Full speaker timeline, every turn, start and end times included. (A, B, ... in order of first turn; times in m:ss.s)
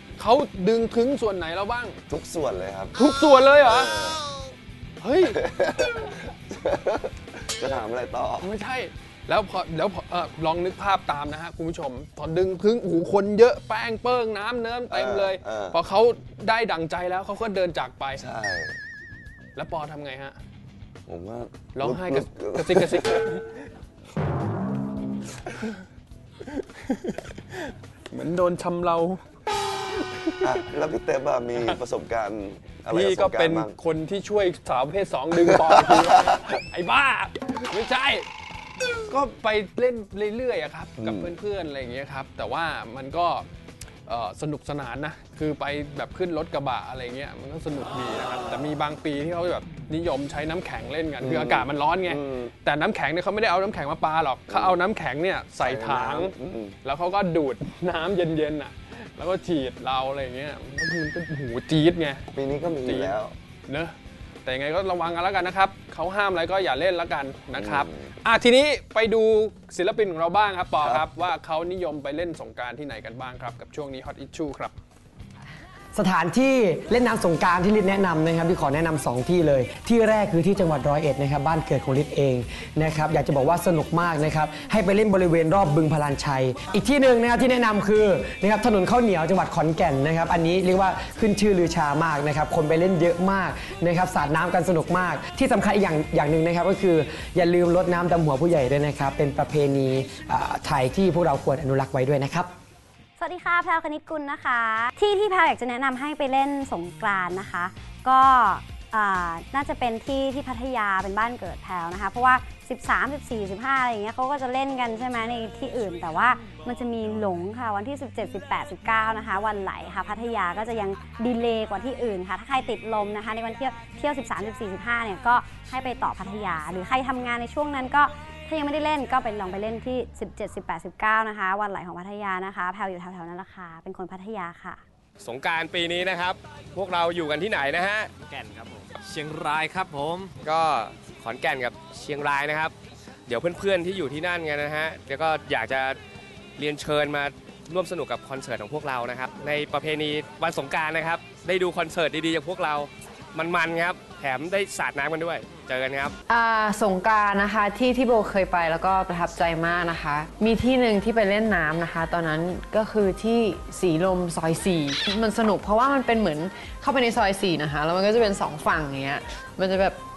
0:00.2-0:02.0 A
0:02.1-0:03.0 B
0:03.0-0:03.9 A
0:03.6-0:04.2 B
0:05.0-0:05.4 A
0:05.2-0:08.5 B
0:08.4-0:18.2 A
0:14.9-0:15.8 B
0:18.2-0:18.8 B
0:19.6-0:20.4 A
0:21.1-0:23.3 B
0:21.7-0:23.6 A
0:26.5-0:29.2 A
0:30.2-0:30.5 A
0:30.4-0:33.8 B
0:31.5-0:31.8 A
0:32.9-0:38.3 A
0:35.7-0:36.4 B
0:39.1-0:43.5 A
0:41.0-0:41.3 B
0:44.1-0:56.3 A
0:51.2-0:52.5 B
0:54.5-0:54.8 B
0:55.6-0:56.8 B
0:56.8-1:14.7 A
1:02.3-1:03.4 B
1:07.5-1:08.0 B
1:10.8-1:11.1 B
1:16.0-1:42.5 C
1:43.2-2:14.8 D
2:15.2-2:18.1 E
2:18.3-2:20.3 F
2:20.4-2:22.7 E
2:23.3-2:26.0 E
2:26.6-2:36.2 E
2:36.3-2:50.0 G